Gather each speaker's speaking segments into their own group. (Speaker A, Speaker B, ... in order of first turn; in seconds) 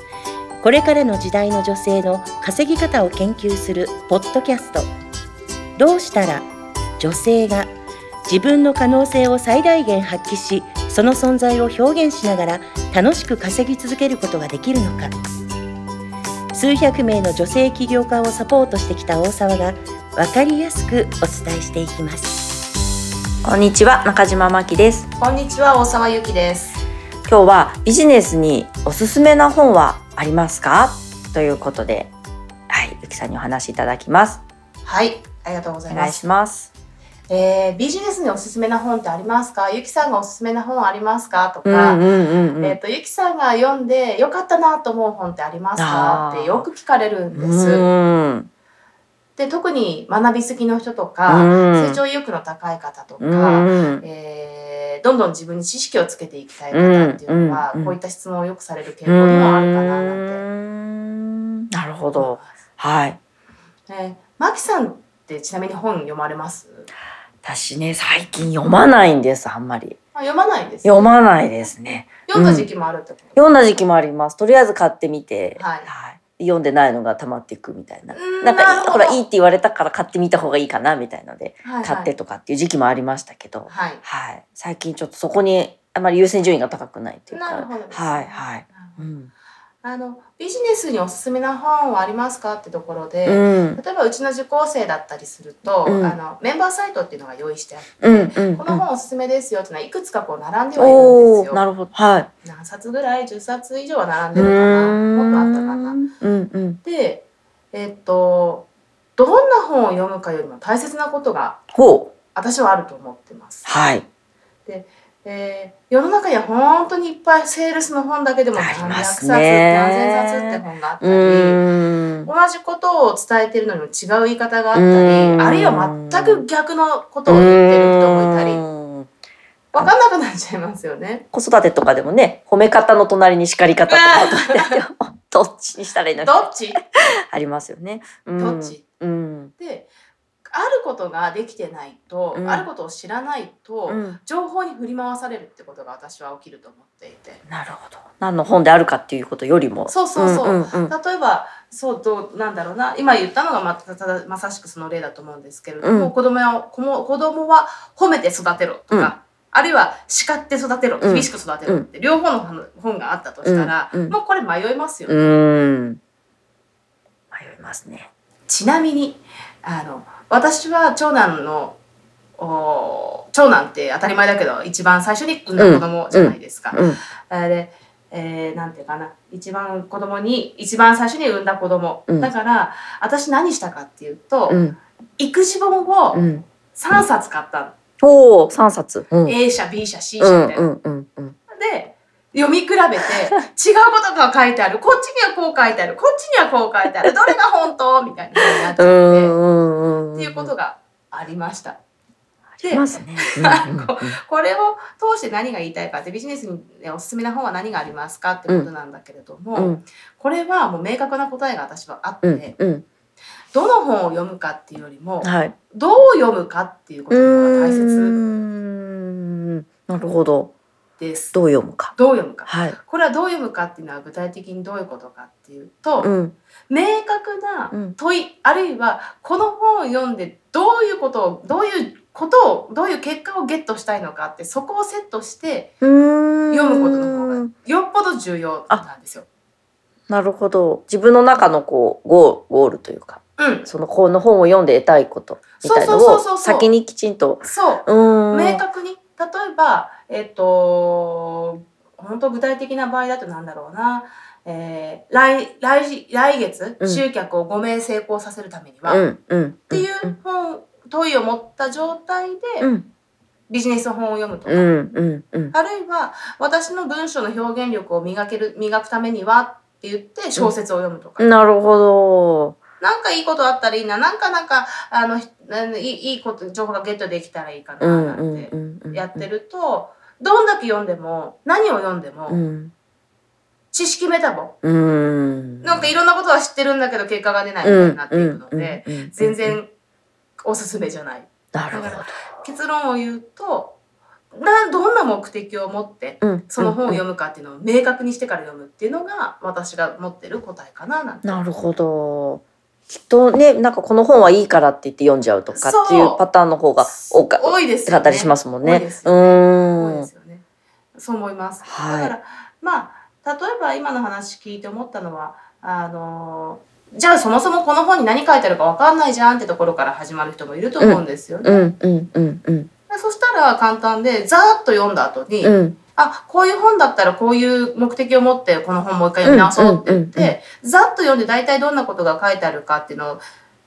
Speaker A: 0.6-4.9, 5.8-6.5, 7.0-7.7, 8.3-15.1, 16.5-22.4
Speaker B: 23.4-25.1, 27.3-32.1, 32.7-34.4, 35.9-36.7, 41.6-42.8, 45.8-46.7, 47.3-48.5, 51.3-52.0, 53.2-54.0, 56.7-58.0, 59.0-63.2, 67.4-70.0, 70.8-72.7, 73.3-89.3, 93.2-93.8, 95.8-96.2, 98.0-98.8, 100.7-102.3, 104.3-106.8, 111.7-112.1, 113.7-114.0, 118.5-122.3, 124.7-126.4, 127.3-129.1, 131.3-139.5, 142.3-142.7, 143.9-144.2, 147.5-150.9, 155.8-156.1, 161.0-161.9, 163.4-164.2, 165.1-166.0, 167.3-168.1, 175.6-177.0, 184.5-184.8, 186.1-186.4, 188.0-189.4, 190.2-191.3, 198.6-200.5, 202.6-204.2, 209.5-209.8, 212.2-212.8, 215.2-215.5, 217.1-220.5, 221.3-222.8, 226.0-226.3, 227.7-227.9, 235.8-237.5, 240.1-248.6, 258.8-260.1, 262.6-262.9, 264.5-265.5, 271.2-272.6, 277.8-279.2, 282.3-282.7, 284.6-285.9, 287.6-289.6, 291.5-292.1, 296.2-297.0, 301.2-310.1, 311.6-312.1, 320.8-322.7, 325.4-325.8, 329.2-330.4
Speaker C: 25.2-26.8, 34.8-36.2, 37.3-42.0, 42.6-47.9, 49.4-60.4, 62.1-62.5, 63.9-66.9, 70.1-71.1, 72.3-73.4, 75.6-75.9, 78.1-79.2, 81.6-82.1, 83.7-84.0, 87.3-89.0, 89.8-101.6, 102.4-106.1, 106.8-111.6, 112.3-113.7, 114.7-121.6, 122.2-128.6, 129.7-131.2, 133.9-134.8, 136.2-136.8, 138.3-138.8, 139.6-139.9, 140.5-147.4, 149.9-165.2, 168.5-171.8, 172.4-184.7, 185.2-187.8, 189.2-190.7, 191.5-199.4, 200.1-201.8, 202.6-212.6, 213.5-218.2, 221.0-221.4, 221.9-226.1, 226.7-235.7, 236.5-239.3, 243.4-243.7, 245.6-246.7, 247.4-259.0, 259.7-262.7, 263.5-264.7, 265.5-271.3, 272.8-282.4, 283.7-284.6, 285.6-289.7, 290.4-293.8, 294.3-301.4, 305.5-306.2, 306.8-310.4, 310.9-321.7, 322.9-333.2